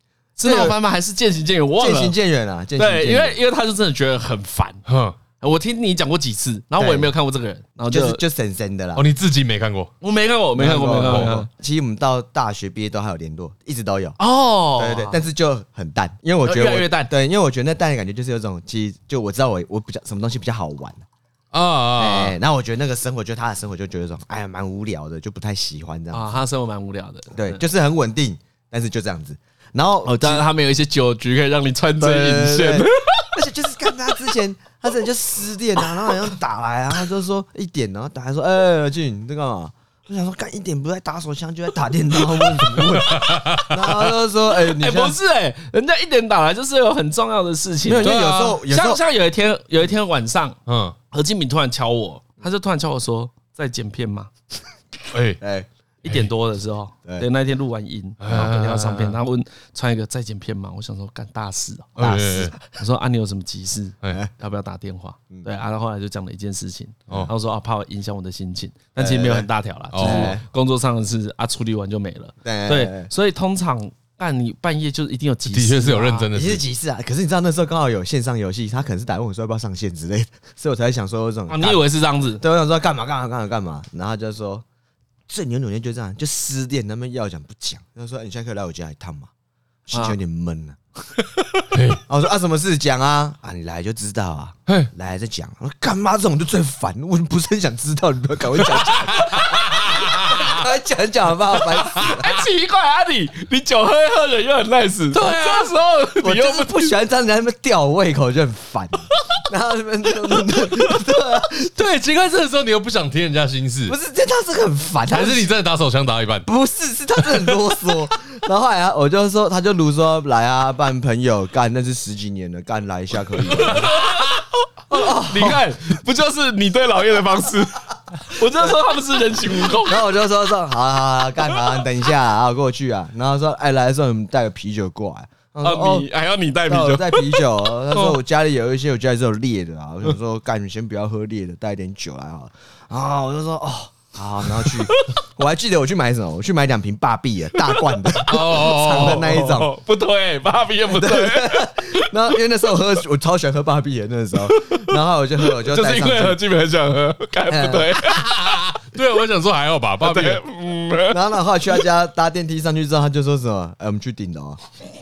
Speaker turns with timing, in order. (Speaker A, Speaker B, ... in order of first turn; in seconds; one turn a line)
Speaker A: 0.4-2.1
Speaker B: 0.4-0.8
Speaker B: 1.8-3.4
Speaker A: 2.8-4.8
Speaker C: 4.9-5.2
Speaker A: 5.4-8.2
Speaker B: 6.8-7.1
Speaker B: 7.8-9.0
Speaker C: 8.9-9.9
Speaker A: 10.0-11.5
Speaker B: 10.6-14.2
Speaker C: 11.1-11.4
Speaker A: 14.2-15.2
Speaker B: 14.8-21.0
Speaker A: 16.4-17.1
Speaker C: 21.5-22.4
Speaker B: 22.0-26.4
Speaker A: 26.1-27.6
Speaker B: 27.3-30.4
Speaker A: 30.0-33.3
Speaker B: 32.0-45.2
Speaker C: 43.0-44.1
Speaker A: 44.6-50.6
Speaker B: 47.8-49.0
Speaker C: 48.0-48.6
Speaker C: 50.7-51.0
Speaker A: 51.1-54.3
Speaker C: 55.1-55.4
Speaker B: 55.4-55.7
Speaker A: 56.0-61.9
Speaker C: 58.2-59.2
Speaker C: 62.0-62.5
Speaker B: 62.0-62.6
Speaker A: 62.7-76.3
Speaker B: 69.0-70.4
Speaker C: 69.9-70.4
Speaker B: 72.4-73.1
Speaker C: 75.5-76.6
Speaker B: 76.3-81.8
Speaker A: 81.5-82.4
Speaker B: 82.4-84.6
Speaker B: 85.3-89.3
Speaker B: 89.8-90.8
Speaker C: 91.7-92.0
Speaker B: 92.1-102.3
Speaker C: 99.0-100.5
Speaker C: 102.0-102.3
Speaker A: 102.0-106.9
Speaker C: 105.1-105.7
Speaker B: 106.2-111.7
Speaker C: 111.7-114.0
Speaker B: 113.8-115.5
Speaker C: 115.1-116.5
Speaker B: 116.5-123.9
Speaker C: 123.6-124.2
Speaker A: 123.7-124.3
Speaker B: 124.9-125.7
Speaker A: 124.9-130.0
Speaker B: 129.6-136.1
Speaker A: 135.6-138.2
Speaker B: 136.7-149.7
Speaker A: 144.6-145.1
Speaker A: 147.7-152.3
Speaker C: 148.2-149.3
Speaker B: 150.9-156.4
Speaker A: 154.5-158.5
Speaker B: 157.5-158.0
Speaker C: 158.0-160.4
Speaker A: 160.0-161.2
Speaker B: 161.1-164.6